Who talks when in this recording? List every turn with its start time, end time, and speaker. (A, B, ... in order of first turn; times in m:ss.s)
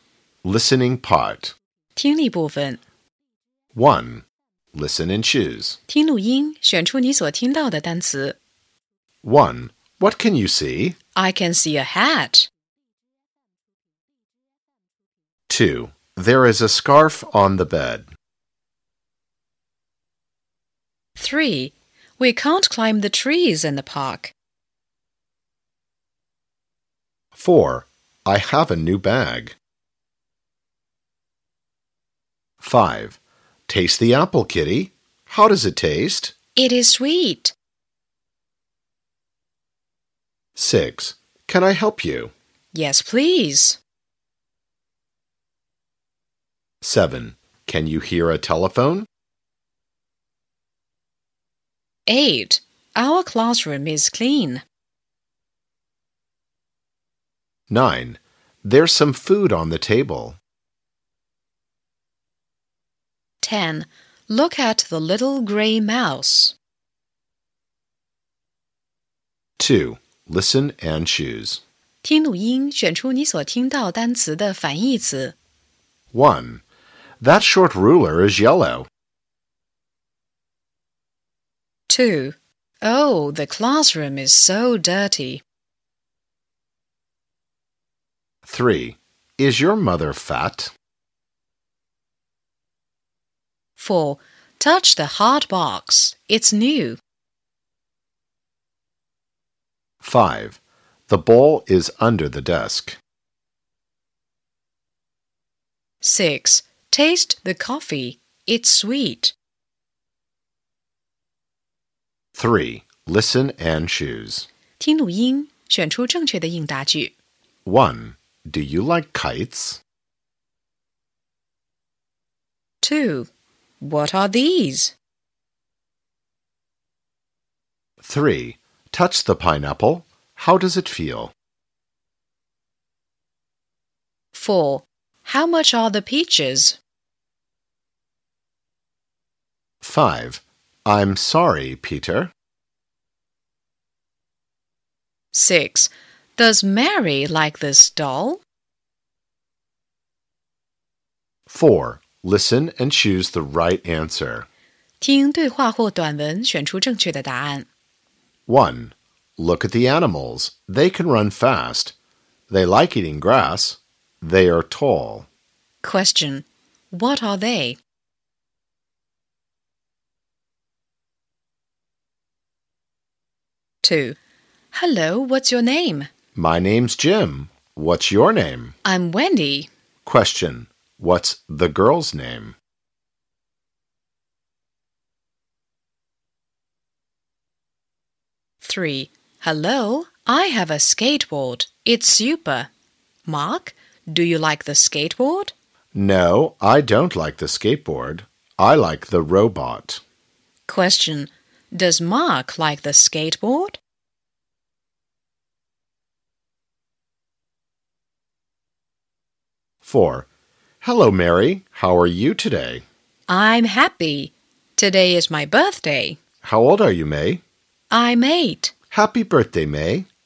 0:00.4-0:01.5 A
0:02.0-0:02.8 B
0:03.8-0:05.8 A
0:05.9-0:08.4 B
0:09.2-0:11.0 A
0:11.2-0:12.5 B
0:15.5-0:18.1 A
0:21.2-0:24.3 B
0:27.4-0:29.6 A
0:32.6-0:36.3 A
0:36.6-0:37.5 B
0:40.6-0:42.3 A
0:42.7-0:43.8 B
0:46.8-0:49.1 A
0:52.1-0:54.6 B
0:57.7-1:00.4 A
1:03.4-1:06.5 B
1:09.6-1:11.6 A
1:12.0-1:15.3 B
1:16.1-1:16.6 A
1:17.2-1:18.9 A
1:21.9-1:25.4 B
1:28.5-1:30.7 A
1:33.8-1:37.0 B
1:40.0-1:43.0 A
1:46.0-1:49.4 B
1:52.4-1:54.5 A
1:54.8-1:57.1 B
1:57.6-1:59.8 A
2:02.8-2:03.3 B
2:03.8-2:04.9 B
2:08.0-2:11.3 A
2:14.3-2:16.8 B
2:19.8-2:22.3 A
2:25.3-2:28.4 B
2:31.5-2:34.5 A
2:35.0-2:37.7 B
2:38.5-2:41.9 A
2:42.5-2:45.3 A
2:45.8-2:47.8 B
2:53.8-2:54.2 B
2:54.7-2:56.1 B
2:56.4-2:58.8 A
2:58.8-2:59.7 B
3:00.0-3:02.6 A
3:08.6-3:12.7 B
3:13.3-3:15.5 B
3:15.9-3:20.0 A
3:20.7-3:23.8 B
3:29.8-3:30.3 A
3:30.8-3:32.8 A
3:33.3-3:36.2 B
3:36.4-3:37.4 A
3:37.9-3:38.7 B
3:38.9-3:40.1 A